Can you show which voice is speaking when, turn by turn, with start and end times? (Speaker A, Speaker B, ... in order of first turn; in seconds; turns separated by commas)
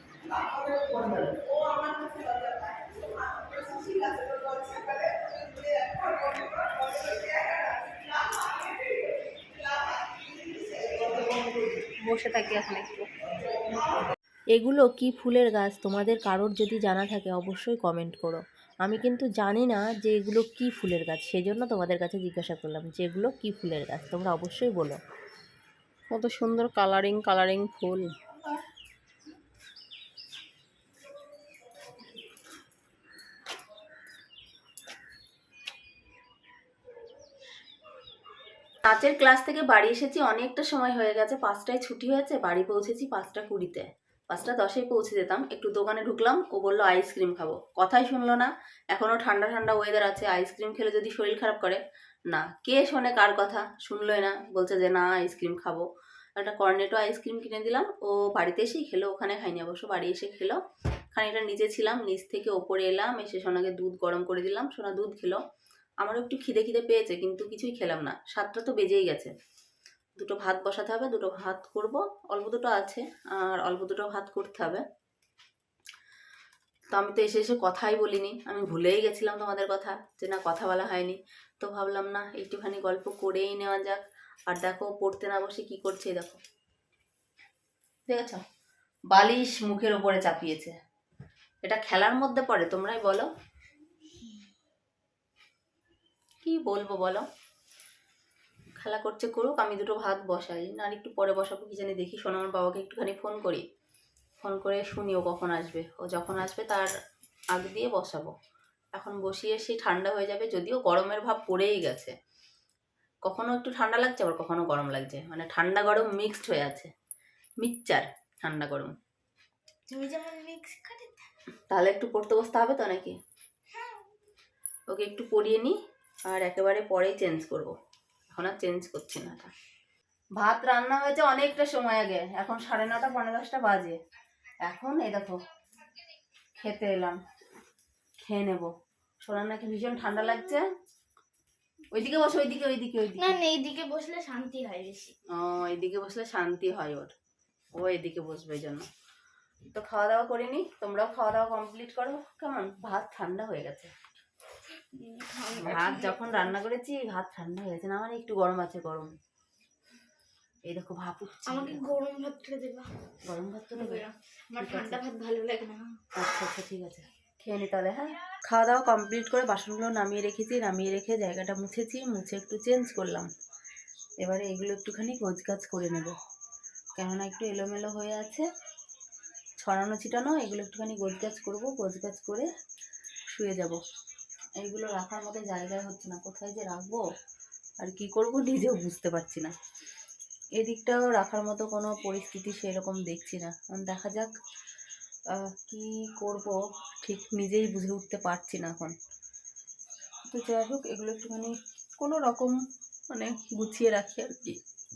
Speaker A: 1.0-1.4, Speaker A: 11.9-13.1, Speaker A: 14.5-25.0, Speaker A: 26.1-28.1, Speaker A: 38.9-55.9, Speaker A: 56.4-60.6, Speaker A: 61.1-65.4, Speaker A: 66.0-69.3, Speaker A: 70.2-74.8, Speaker A: 76.9-86.4, Speaker A: 88.1-88.4, Speaker A: 89.1-90.7, Speaker A: 91.6-93.3, Speaker A: 96.4-97.2, Speaker A: 98.8-103.6, Speaker A: 104.4-106.9, Speaker A: 107.5-108.3, Speaker A: 108.9-112.1, Speaker A: 113.2-116.9, Speaker A: 117.6-118.9, Speaker B: 119.9-121.2, Speaker A: 121.7-123.2, Speaker A: 124.9-125.8, Speaker A: 126.3-127.7, Speaker A: 128.3-129.5, Speaker A: 130.4-134.0, Speaker A: 134.6-135.4, Speaker A: 136.6-137.2, Speaker A: 138.2-138.7, Speaker A: 139.2-140.7, Speaker A: 141.9-143.4, Speaker B: 143.2-145.2, Speaker A: 145.3-147.1, Speaker A: 147.8-148.9, Speaker A: 149.7-153.9, Speaker B: 154.9-156.6, Speaker A: 155.6-159.1, Speaker A: 160.7-161.9, Speaker B: 161.5-162.9, Speaker A: 163.2-164.0, Speaker B: 163.7-166.0, Speaker A: 164.6-165.0, Speaker A: 166.2-173.3, Speaker A: 174.2-176.1, Speaker A: 177.0-178.4, Speaker A: 179.6-182.5, Speaker A: 183.3-183.8, Speaker A: 184.6-187.0, Speaker A: 187.8-189.5, Speaker A: 190.6-194.3, Speaker A: 195.3-198.9, Speaker A: 200.3-202.6, Speaker A: 203.1-204.6